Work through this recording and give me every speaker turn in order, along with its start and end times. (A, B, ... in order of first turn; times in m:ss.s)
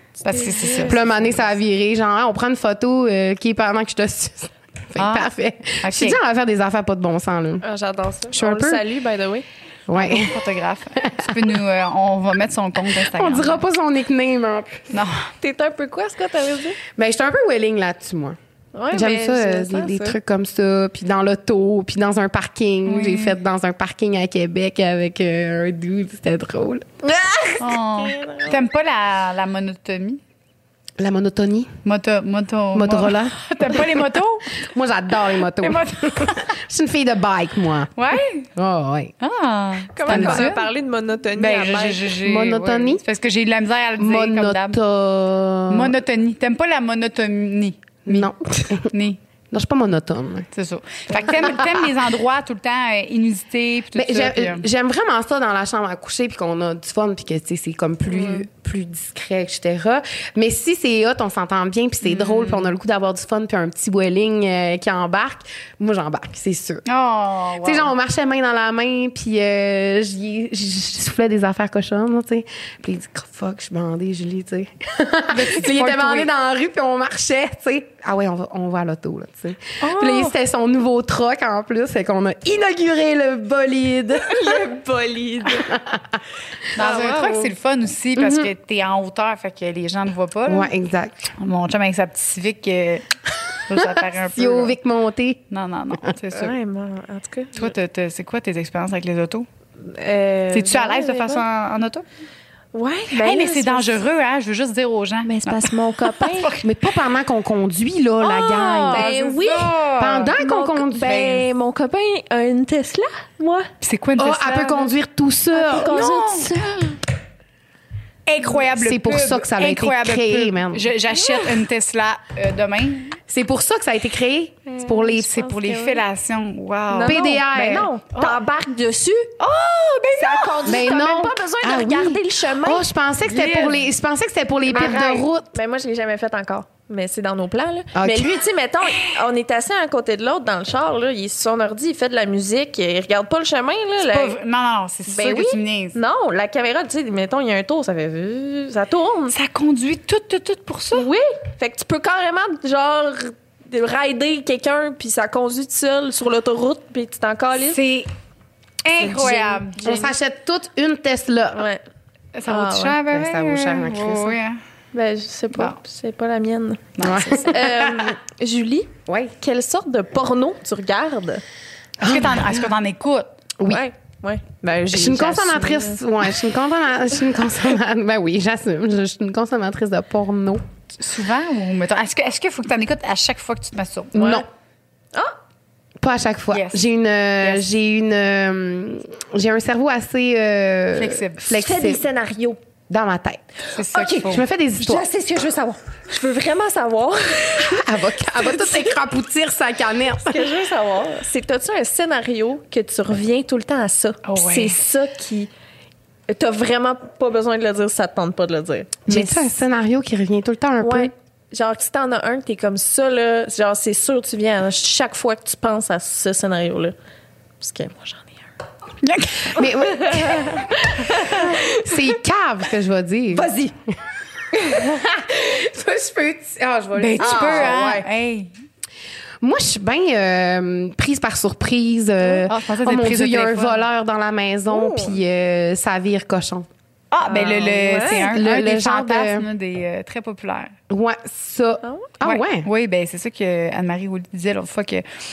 0:00.2-0:01.0 A
0:00.2-0:01.0 B
0:00.8-0:07.6 C
0:05.0-0:05.3 A
0:05.8-0:06.2 A
0:07.6-0:09.4 B
0:08.3-0:08.8 C
0:09.9-0:10.4 C
0:09.9-0:13.6 A
0:11.0-0:11.4 C
0:13.0-0:14.9 C
0:14.9-0:15.2 A
0:15.4-0:16.8 B
0:16.9-0:18.4 C
0:18.7-0:20.2 B
0:18.9-0:26.9 C
0:22.8-0:23.4 A
0:27.0-0:28.6 B
0:27.6-0:30.2 A
0:31.0-0:31.7 C
0:31.8-0:34.6 A
0:32.7-0:33.9 C
0:34.5-0:37.9 C
0:35.6-0:36.4 A
0:38.0-0:38.5 A
0:38.6-0:39.1 C
0:39.2-0:40.7 A
0:39.9-0:42.1 B
0:40.1-0:40.5 C
0:41.3-0:44.8 A
0:42.2-0:43.0 C
0:44.0-0:46.0 C
0:45.7-0:49.2 A
0:48.0-0:48.9 C
0:49.5-0:50.5 C
0:50.5-0:54.6 A
0:51.1-0:51.9 C
0:53.9-1:06.8 C
1:02.0-1:02.7 A
1:06.8-1:07.9 A
1:07.6-1:24.6 C
1:15.3-1:16.3 A
1:19.8-1:20.3 A
1:24.2-1:25.7 B
1:25.5-1:26.0 C
1:26.8-1:27.5 B
1:26.8-1:30.7 A
1:28.2-1:28.5 C
1:30.4-1:31.3 C
1:31.4-1:34.8 A
1:33.7-1:35.4 C
1:35.5-1:36.5 A
1:36.3-1:37.7 B
1:37.6-1:39.5 A
1:39.8-1:41.4 B
1:40.5-1:42.0 A
1:42.7-1:44.0 B
1:43.1-1:46.6 A
1:45.2-1:46.6 B
1:46.6-1:49.1 C
1:48.2-1:50.4 A
1:48.9-1:49.8 B
1:50.0-1:51.4 C
1:50.4-1:53.7 B
1:51.1-1:51.4 A
1:53.8-1:54.9 A
1:54.2-1:56.1 C
1:55.5-1:57.0 B
1:55.7-1:56.9 A
1:58.2-2:03.2 A
1:58.7-2:00.9 C
2:01.1-2:01.6 B
2:03.3-2:05.4 C
2:04.6-2:06.0 B
2:05.2-2:07.4 A
2:06.9-2:09.3 B
2:07.0-2:07.9 C
2:08.1-2:08.4 A
2:09.4-2:10.8 A
2:10.1-2:12.8 B
2:10.6-2:15.4 C
2:13.2-2:13.9 A
2:14.7-2:15.2 A
2:15.5-2:24.4 B
2:17.9-2:18.4 C
2:24.0-2:26.0 A
2:25.1-2:29.3 B
2:29.3-2:31.1 A
2:30.9-2:37.8 B
2:37.6-2:38.1 A
2:38.8-2:40.0 A
2:39.0-2:40.1 B
2:39.8-2:41.6 C
2:41.5-2:41.8 B
2:42.3-2:44.6 A
2:42.4-2:43.0 B
2:43.1-2:44.4 C
2:44.9-2:51.4 B
2:47.0-2:47.4 A
2:47.0-2:48.1 C
2:49.1-2:49.3 C
2:52.0-2:52.7 C
2:52.0-2:53.3 A
2:53.6-2:53.8 C
2:53.6-2:56.0 B
2:54.9-3:00.6 C
3:01.0-3:04.4 A
3:04.1-3:04.4 C
3:04.1-3:04.4 B
3:06.0-3:12.0 C
3:06.5-3:06.8 A
3:10.9-3:11.4 A
3:11.5-3:12.6 B
3:12.9-3:13.4 C
3:13.7-3:14.4 A
3:13.9-3:18.8 B
3:14.1-3:15.0 C
3:17.6-3:20.4 C
3:20.2-3:25.5 B
3:24.2-3:24.8 A
3:26.3-3:29.5 B
3:29.1-3:31.1 C
3:30.8-3:36.9 B
3:37.6-3:38.5 B
3:39.0-3:39.6 A
3:39.5-3:43.5 C
3:39.8-3:42.0 B
3:43.3-3:43.7 B
3:44.6-3:47.8 C
3:47.0-3:48.5 A
3:47.2-3:48.1 B
3:49.4-3:56.7 C
3:52.2-3:52.5 B
3:52.5-3:53.8 A
3:54.7-3:55.2 B
3:57.1-4:00.7 A
3:57.2-3:58.3 B
3:58.0-3:59.4 C
4:00.9-4:02.7 C
4:01.8-4:02.1 B
4:02.2-4:05.0 A